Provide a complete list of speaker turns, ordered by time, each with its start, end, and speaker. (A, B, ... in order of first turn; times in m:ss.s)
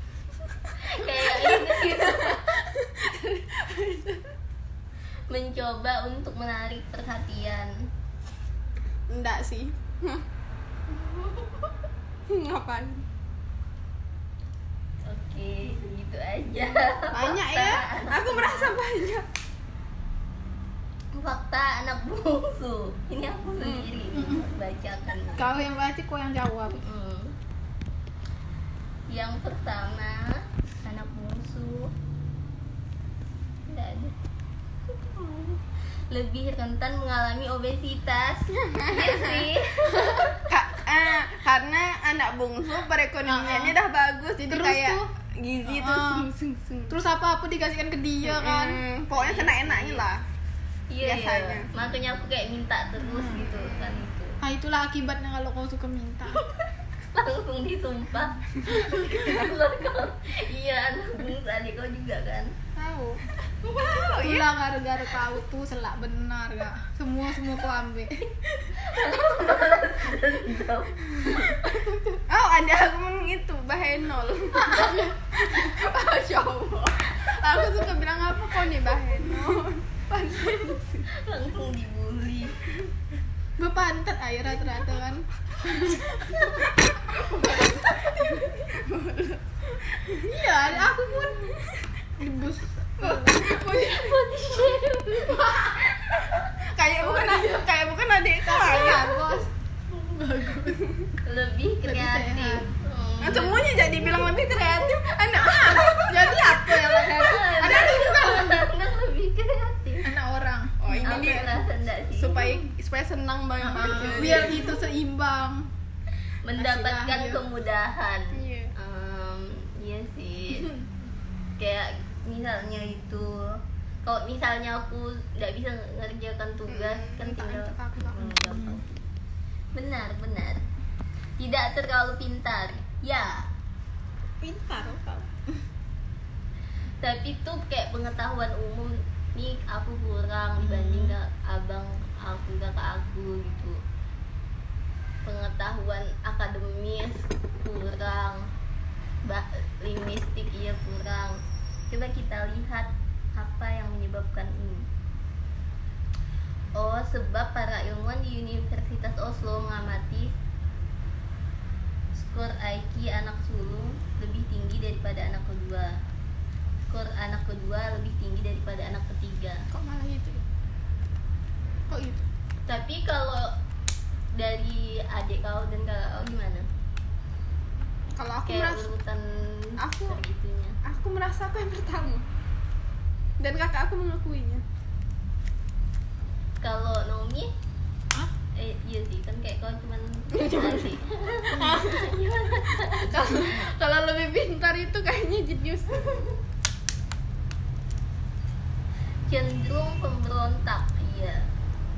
0:00.5-0:04.3 A
0:00.8-0:02.6 B
0:05.3-0:07.7 B
0:09.1-0:10.2 A
0:10.9-0:11.8 B
0:12.3-0:13.0 A
0:15.0-0:18.8 B
0:17.1-0:19.2 A
0:21.1-0:25.5 B
0:23.6-0:23.9 A
0:24.1-0:24.5 C
0:25.4-0:26.8 C
0:26.7-0:27.3 B
0:29.1-0:31.9 B
0:33.7-0:34.1 B
0:35.0-0:35.6 B
0:36.1-0:40.5 B
0:38.8-0:39.4 A
0:40.0-0:47.0 A
0:43.3-0:43.7 C
0:44.5-0:45.1 C
0:45.6-0:46.3 C
0:46.9-0:49.6 C
0:48.2-0:50.2 A
0:49.2-0:50.0 B
0:50.9-0:54.4 B
0:51.0-0:51.7 A
0:53.0-0:53.5 C
0:53.5-0:53.9 A
0:54.4-0:56.4 C
0:56.3-1:02.5 B
1:02.8-1:03.2 C
1:03.6-1:04.1 B
1:03.8-1:08.3 C
1:08.7-1:11.6 B
1:08.8-1:09.6 C
1:11.5-1:12.2 C
1:12.3-1:21.0 A
1:14.6-1:16.0 C
1:14.6-1:15.0 B
1:15.6-1:15.9 B
1:17.0-1:17.8 B
1:21.2-1:22.6 B
1:23.6-1:28.7 C
1:24.5-1:25.1 A
1:26.3-1:26.7 B
1:26.9-1:27.7 A
1:28.2-1:30.4 A
1:30.3-1:31.6 C
1:31.2-1:31.8 A
1:32.2-1:33.8 C
1:33.0-1:34.2 A
1:33.5-1:36.5 B
1:36.6-1:39.3 A
1:37.0-1:37.7 C
1:38.4-1:40.9 C
1:40.8-1:41.0 A
1:41.2-1:43.6 B
1:41.8-1:42.7 C
1:43.2-1:48.6 A
1:45.5-1:48.6 C
1:46.9-1:50.1 B
1:50.0-1:51.3 C
1:50.8-1:54.7 A
1:51.0-1:52.6 B
1:53.6-1:55.6 C
1:53.9-1:54.5 B
1:56.4-2:00.7 B
1:56.6-1:57.4 C
1:58.3-1:58.7 A
2:01.6-2:08.9 B
2:06.7-2:08.3 A
2:08.2-2:08.8 C
2:09.7-2:10.6 B
2:11.4-2:13.5 B
2:14.4-2:15.6 C
2:17.0-2:23.8 B
2:20.6-2:21.2 C
2:25.2-2:28.4 B
2:29.2-2:31.4 B
2:31.9-2:34.9 B
2:36.7-2:40.3 B
2:42.1-2:46.0 B
2:46.9-2:49.6 B
2:49.7-2:50.4 A
2:51.9-2:52.2 A
2:52.6-2:53.5 B
2:54.3-2:56.7 B
2:58.2-2:58.9 A
2:58.4-3:00.8 B
2:59.8-3:00.2 A
3:00.8-3:02.2 A
3:03.4-3:04.6 A
3:06.6-3:07.5 B
3:08.6-3:13.6 B
3:10.3-3:11.0 A
3:11.5-3:16.3 A
3:11.6-3:11.8 C
3:19.3-3:21.5 B